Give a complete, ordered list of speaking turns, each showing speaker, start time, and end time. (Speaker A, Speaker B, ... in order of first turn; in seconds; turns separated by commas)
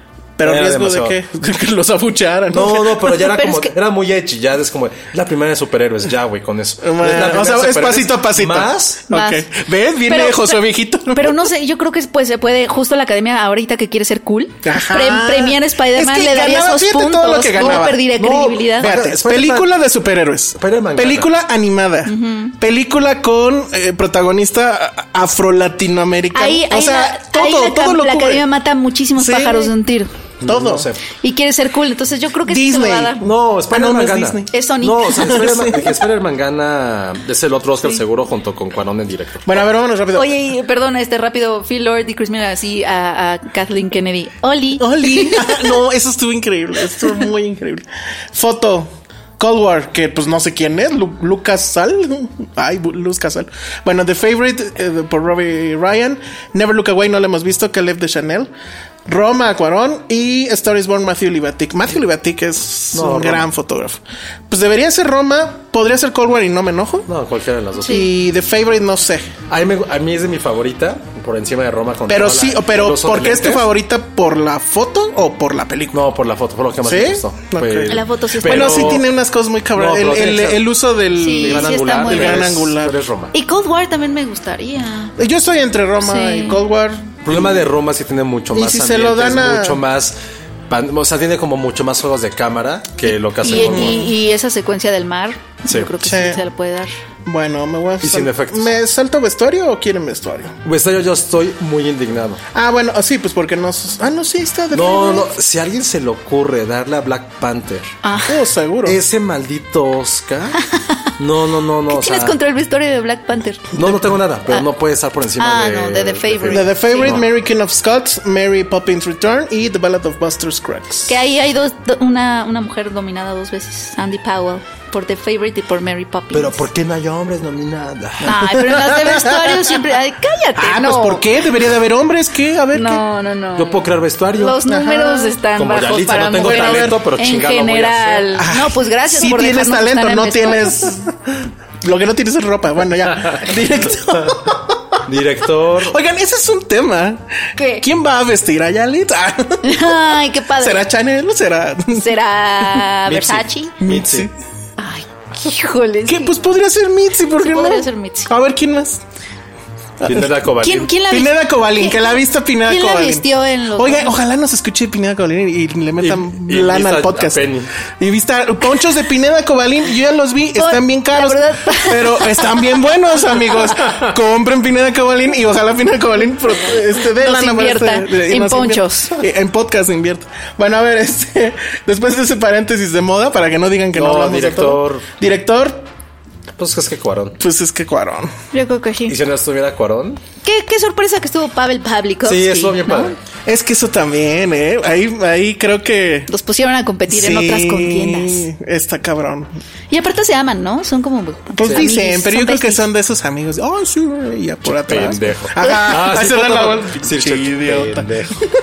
Speaker A: 0.4-3.0, Speaker B: 0.4-1.2, Speaker B: 2.5-9.1, Speaker C: 3.2-3.7, Speaker A: 6.8-11.3, Speaker C: 9.1-9.4, Speaker C: 10.1-10.6, Speaker C: 11.1-18.9, Speaker A: 14.6-18.0, Speaker B: 17.6-19.7, Speaker A: 18.8-28.4, Speaker B: 20.6-21.3, Speaker C: 22.1-22.5, Speaker C: 26.3-30.1, Speaker A: 29.2-29.7, Speaker B: 30.4-31.0, Speaker A: 30.4-30.9, Speaker C: 31.2-33.3, Speaker A: 32.5-34.5, Speaker B: 33.2-39.7, Speaker C: 34.5-35.5, Speaker A: 35.1-35.9, Speaker A: 39.5-40.3, Speaker C: 40.1-45.8, Speaker A: 44.8-58.5, Speaker A: 59.0-67.1, Speaker B: 62.9-63.5, Speaker B: 67.1-68.1, Speaker A: 67.8-69.3, Speaker B: 69.5-73.7, Speaker A: 72.1-76.0, Speaker B: 75.9-79.1, Speaker A: 76.8-83.0, Speaker C: 77.9-79.0, Speaker B: 79.7-80.7, Speaker C: 81.1-82.5, Speaker B: 81.4-83.3, Speaker C: 83.3-85.1, Speaker A: 85.2-87.6, Speaker C: 86.0-86.6, Speaker B: 87.2-90.2, Speaker A: 88.5-89.8, Speaker B: 90.7-94.1, Speaker C: 93.4-96.9, Speaker A: 93.5-94.1, Speaker B: 95.7-95.9, Speaker A: 96.0-96.4, Speaker A: 97.2-100.5, Speaker B: 98.0-98.7, Speaker B: 100.6-102.4, Speaker A: 102.5-105.3, Speaker B: 104.7-107.9, Speaker C: 108.0-108.5, Speaker A: 108.3-109.0, Speaker B: 108.8-110.6, Speaker C: 110.6-111.0, Speaker B: 111.2-112.4, Speaker C: 111.9-113.8, Speaker B: 113.7-117.2, Speaker C: 115.4-117.2, Speaker A: 116.5-121.1, Speaker C: 121.1-126.6, Speaker B: 126.3-128.5, Speaker A: 128.2-129.8, Speaker C: 128.2-131.3, Speaker A: 130.6-133.0, Speaker C: 132.7-133.8, Speaker B: 133.6-134.6, Speaker C: 134.3-140.9, Speaker A: 134.7-135.4, Speaker B: 135.5-138.4, Speaker A: 136.4-137.0, Speaker A: 138.4-141.1, Speaker A: 141.8-145.0, Speaker B: 145.1-146.0, Speaker A: 145.8-147.2, Speaker C: 147.6-147.8, Speaker A: 147.8-149.9, Speaker C: 149.6-150.8, Speaker A: 150.6-152.1, Speaker C: 151.9-153.8, Speaker B: 153.1-154.3, Speaker A: 153.8-154.3, Speaker C: 154.8-156.3, Speaker A: 156.1-159.0, Speaker C: 157.4-158.3, Speaker A: 160.0-160.3, Speaker B: 160.0-160.9, Speaker C: 160.6-164.2, Speaker A: 161.1-163.2, Speaker A: 163.8-167.4, Speaker B: 166.0-167.7, Speaker A: 168.0-185.8, Speaker C: 170.6-174.0, Speaker C: 176.5-179.2, Speaker B: 183.9-185.1, Speaker B: 186.6-187.4, Speaker A: 187.4-188.3, Speaker C: 188.5-189.2, Speaker B: 189.1-190.2, Speaker C: 190.4-193.2, Speaker B: 192.2-193.2, Speaker A: 193.4-196.3, Speaker C: 196.3-198.5, Speaker A: 197.1-199.5, Speaker C: 199.9-202.8, Speaker A: 201.6-208.1, Speaker B: 201.6-201.9, Speaker B: 204.6-208.4